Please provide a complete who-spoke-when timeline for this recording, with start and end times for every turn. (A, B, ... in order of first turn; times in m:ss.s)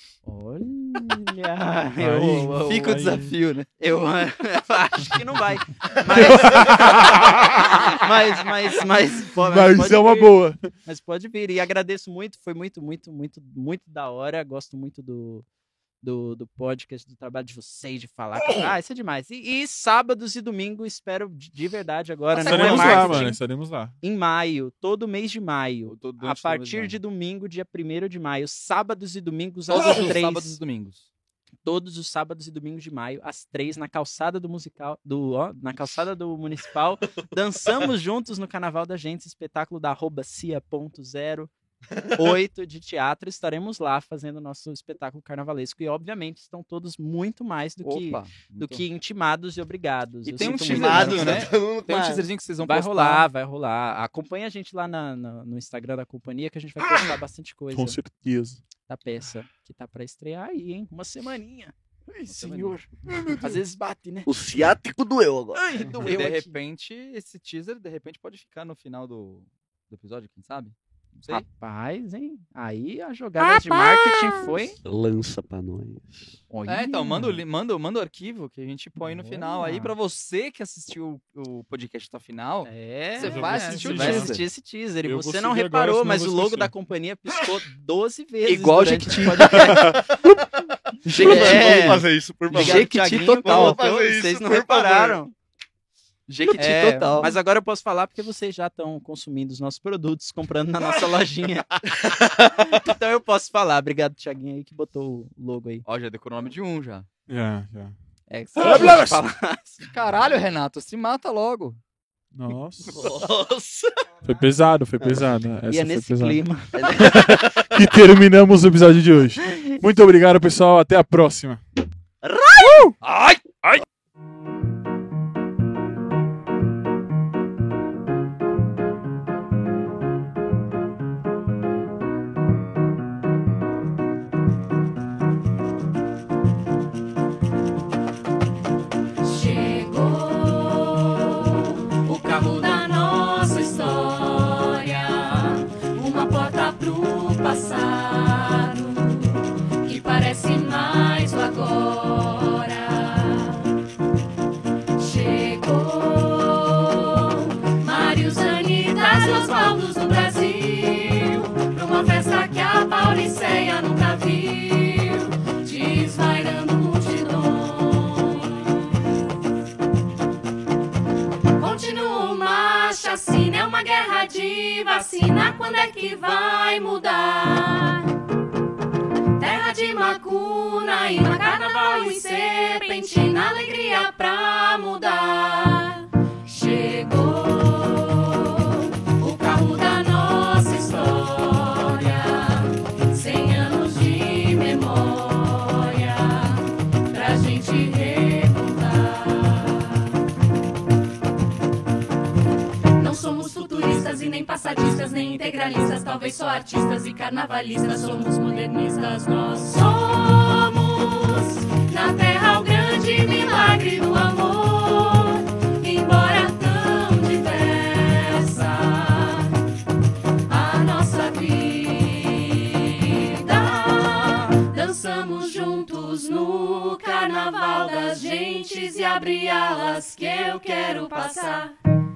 0:00.2-0:03.0 A
0:02.0-0:03.3 B
0:02.7-0:03.7 C
0:03.8-0:15.5 A
0:06.1-0:08.0 B
0:09.3-0:10.7 B
0:16.0-0:23.4 A
0:22.3-0:23.3 C
0:22.5-0:24.0 B
0:24.0-0:30.5 A
0:25.9-0:27.0 C
0:29.7-0:31.1 C
0:31.6-0:41.5 A
0:42.2-0:51.5 A
0:47.8-0:48.8 C
0:50.3-0:53.3 C
0:50.5-0:52.3 D
0:52.6-0:58.0 A
0:57.7-0:58.6 B
0:58.9-1:04.3 A
1:02.3-1:02.8 C
1:03.1-1:03.6 B
1:04.3-1:05.6 D
1:05.5-1:06.6 A
1:05.9-1:11.4 C
1:11.3-1:14.8 A
1:13.4-1:14.7 E
1:14.8-1:16.4 D
1:16.5-1:17.4 A
1:16.7-1:24.4 C
1:19.1-1:19.9 A
1:22.6-1:30.0 A
1:23.2-1:24.4 B
1:25.0-1:26.7 B
1:28.5-1:30.0 C
1:29.8-1:35.2 D
1:31.0-1:32.0 C
1:31.1-1:35.3 A
1:32.5-1:33.8 C
1:36.3-1:37.3 C
1:36.6-1:45.8 A
1:42.0-1:42.8 D
1:45.8-1:47.1 C
1:47.3-1:48.0 B
1:48.3-1:49.9 A
1:48.6-1:49.2 B
1:49.9-1:51.8 C
1:52.3-1:53.0 B
1:52.9-1:54.1 D
1:54.2-1:56.4 B
1:55.0-1:55.4 D
1:55.7-1:56.9 A
1:56.8-1:57.9 D
1:56.9-2:01.6 B
2:02.2-2:02.9 D
2:02.6-2:02.9 B
2:03.0-2:03.8 C
2:19.2-2:33.7 E
2:35.0-2:48.7 E
2:51.6-2:58.1 E
2:59.4-3:20.1 E
3:23.0-3:39.6 E
3:40.5-3:51.8 E